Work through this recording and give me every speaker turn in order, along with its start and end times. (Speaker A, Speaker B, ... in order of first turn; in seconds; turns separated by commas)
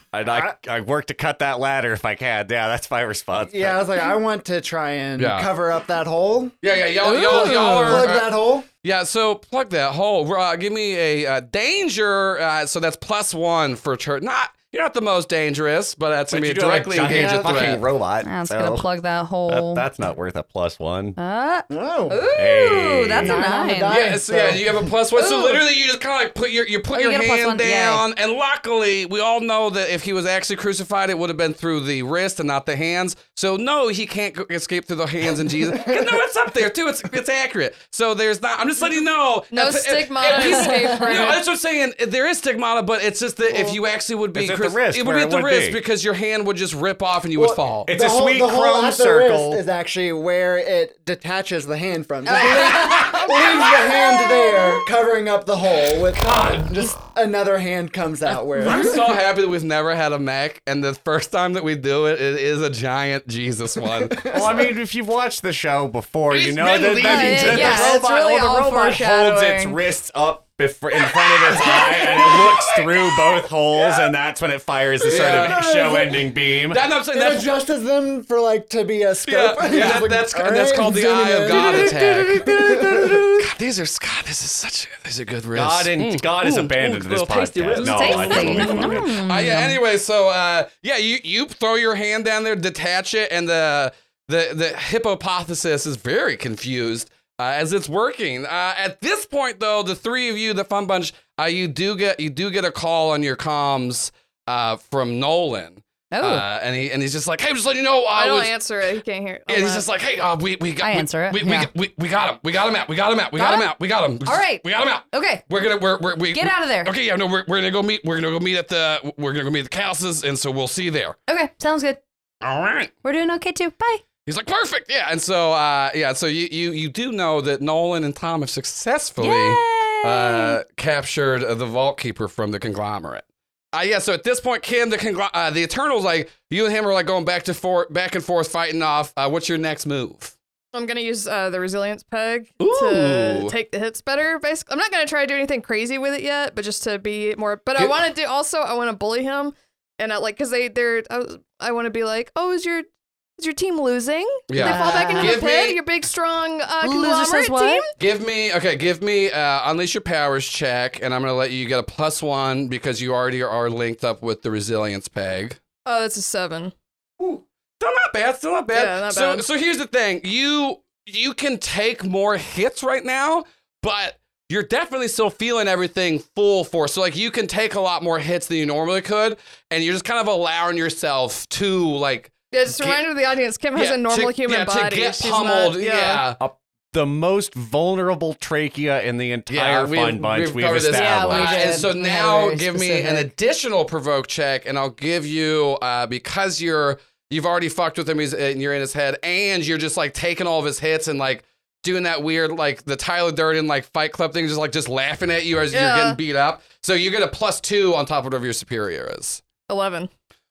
Speaker A: 0.1-3.8, Speaker B: 3.4-6.5, Speaker C: 5.2-5.5, Speaker C: 6.6-8.3, Speaker D: 7.0-8.1, Speaker B: 7.2-8.7, Speaker C: 8.8-17.8, Speaker A: 16.3-18.9, Speaker D: 17.1-17.6, Speaker D: 18.2-19.8, Speaker A: 19.5-21.2, Speaker D: 21.2-24.0, Speaker B: 21.7-22.3, Speaker A: 22.4-23.4, Speaker B: 23.2-24.9, Speaker C: 23.9-47.9, Speaker D: 25.1-25.6, Speaker D: 26.9-28.0, Speaker B: 35.8-36.2, Speaker E: 39.5-41.4, Speaker A: 44.3-45.8, Speaker B: 47.4-59.1, Speaker A: 47.9-49.6, Speaker D: 52.2-54.8, Speaker C: 52.3-53.4, Speaker C: 56.1-56.7, Speaker C: 58.6-64.3, Speaker B: 64.0-64.7, Speaker A: 64.3-76.8, Speaker C: 66.3-67.8, Speaker E: 67.0-67.9, Speaker D: 67.1-69.8, Speaker C: 71.5-72.8, Speaker B: 71.5-72.6, Speaker B: 73.8-74.0, Speaker B: 75.0-76.4, Speaker C: 75.1-75.7, Speaker C: 76.7-77.5, Speaker B: 77.1-83.4, Speaker C: 79.2-108.5, Speaker A: 81.5-83.2, Speaker A: 85.5-89.1, Speaker D: 87.8-89.8, Speaker D: 106.1-106.4, Speaker E: 108.1-109.9, Speaker C: 109.5-121.2, Speaker D: 110.8-111.7, Speaker D: 113.3-113.7, Speaker D: 114.2-115.4, Speaker D: 116.3-116.9, Speaker D: 121.3-122.0, Speaker C: 122.4-122.9, Speaker D: 123.0-124.0, Speaker C: 124.2-140.3, Speaker D: 129.2-130.6, Speaker E: 140.7-152.8, Speaker C: 142.6-143.5, Speaker C: 147.8-148.0, Speaker E: 153.4-157.9, Speaker C: 154.5-155.8, Speaker D: 154.6-155.4, Speaker D: 156.8-157.9, Speaker C: 158.0-165.6, Speaker E: 165.8-166.7, Speaker C: 167.2-183.0, Speaker E: 168.7-169.4, Speaker E: 182.5-186.2, Speaker C: 183.7-186.4, Speaker A: 186.4-191.8, Speaker C: 189.5-209.4, Speaker D: 190.9-193.3, Speaker E: 205.7-206.2, Speaker E: 209.7-210.1